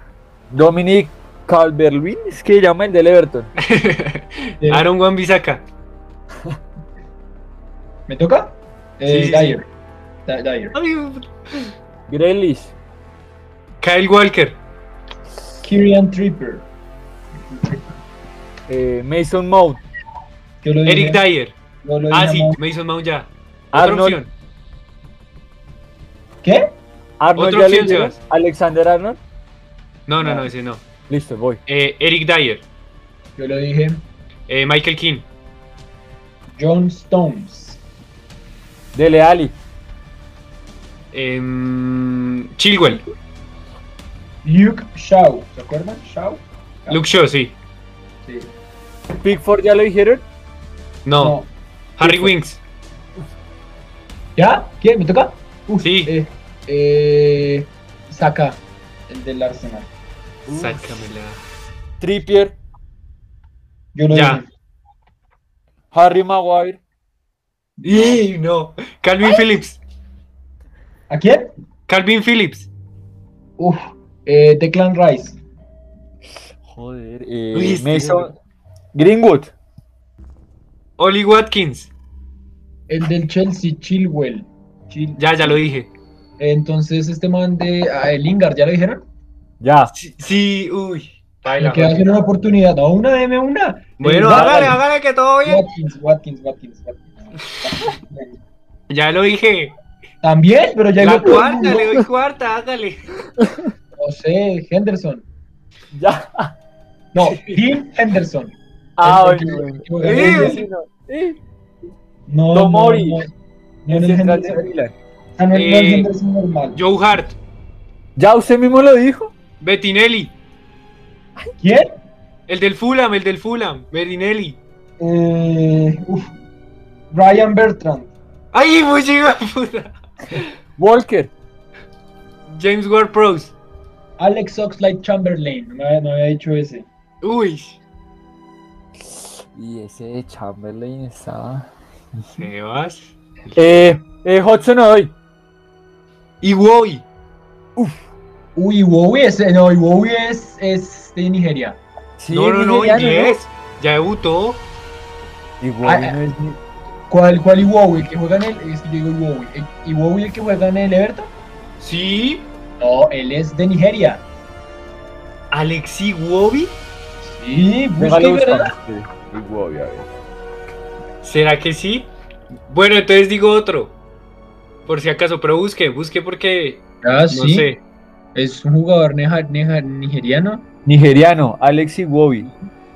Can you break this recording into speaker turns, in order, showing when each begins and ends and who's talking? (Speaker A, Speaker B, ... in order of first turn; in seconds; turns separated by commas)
Speaker A: 0.5-3.5, Speaker B: 3.6-5.6, Speaker C: 4.6-4.9, Speaker C: 8.1-9.7, Speaker B: 9.1-9.6, Speaker C: 10.3-10.8, Speaker B: 10.7-11.7, Speaker A: 12.1-12.7, Speaker B: 13.8-14.6, Speaker C: 15.6-16.7, Speaker A: 18.7-19.8, Speaker C: 20.6-21.2, Speaker B: 20.9-21.6, Speaker C: 21.8-22.6, Speaker B: 22.1-24.3, Speaker A: 23.7-24.2, Speaker C: 26.4-26.7, Speaker A: 27.2-29.2, Speaker B: 27.4-28.2, Speaker B: 30.1-30.8, Speaker A: 31.1-31.6, Speaker B: 31.7-32.6, Speaker C: 33.4-34.0, Speaker B: 34.5-35.3, Speaker C: 36.5-37.8, Speaker A: 38.9-39.6, Speaker B: 41.1-43.0, Speaker C: 44.4-47.0, Speaker B: 46.9-47.6, Speaker A: 49.2-50.2, Speaker B: 51.0-51.4, Speaker C: 51.2-51.5, Speaker B: 52.0-52.6, Speaker A: 52.0-52.3, Speaker C: 54.4-59.9, Speaker B: 55.8-56.1, Speaker A: 60.5-61.0, Speaker B: 60.5-61.4, Speaker A: 62.0-62.6, Speaker C: 64.0-64.5, Speaker B: 64.1-64.4, Speaker A: 65.9-66.8, Speaker C: 67.8-68.2, Speaker B: 67.8-69.8, Speaker C: 71.1-71.5, Speaker B: 71.9-72.7, Speaker C: 73.6-75.4, Speaker A: 76.7-78.4, Speaker B: 77.5-78.3, Speaker A: 79.0-79.5, Speaker B: 81.0-81.9, Speaker C: 82.9-85.6, Speaker B: 85.2-85.9, Speaker C: 86.4-89.0, Speaker A: 89.6-89.9, Speaker B: 90.0-92.1, Speaker C: 91.5-94.8, Speaker B: 94.0-95.7, Speaker A: 94.2-94.7, Speaker C: 95.5-98.4, Speaker B: 98.9-99.8, Speaker C: 100.2-102.0, Speaker B: 101.0-103.1, Speaker A: 101.2-101.5, Speaker A: 103.4-103.7, Speaker C: 104.0-105.2, Speaker A: 105.9-106.5, Speaker C: 107.1-110.7, Speaker A: 109.0-111.4, Speaker B: 110.0-110.7, Speaker C: 112.3-113.3, Speaker A: 112.5-113.2, Speaker C: 113.8-114.7, Speaker A: 113.9-114.9, Speaker C: 115.4-116.8, Speaker B: 115.5-116.1, Speaker B: 116.8-117.4, Speaker A: 118.2-119.3, Speaker B: 119.6-120.3, Speaker C: 121.6-121.9, Speaker B: 122.5-124.6, Speaker C: 125.0-126.3, Speaker C: 127.1-128.1, Speaker B: 128.5-130.4, Speaker A: 130.8-131.3, Speaker B: 132.5-133.5, Speaker C: 134.2-136.9, Speaker B: 137.2-137.8, Speaker A: 139.0-141.7, Speaker A: 142.2-142.4, Speaker B: 142.4-143.6, Speaker A: 143.6-145.1, Speaker B: 146.4-147.1, Speaker A: 147.8-148.0, Speaker C: 148.6-151.8, Speaker A: 152.2-153.4, Speaker B: 152.3-154.7, Speaker A: 155.6-156.6, Speaker C: 155.8-156.2, Speaker C: 157.1-161.3, Speaker B: 161.8-162.5, Speaker C: 162.8-164.2, Speaker B: 165.5-166.8, Speaker C: 167.2-168.7, Speaker A: 168.0-170.1, Speaker B: 171.2-172.1, Speaker B: 172.7-174.0, Speaker B: 174.9-177.8, Speaker C: 177.0-177.7, Speaker C: 178.3-180.7, Speaker A: 180.9-182.5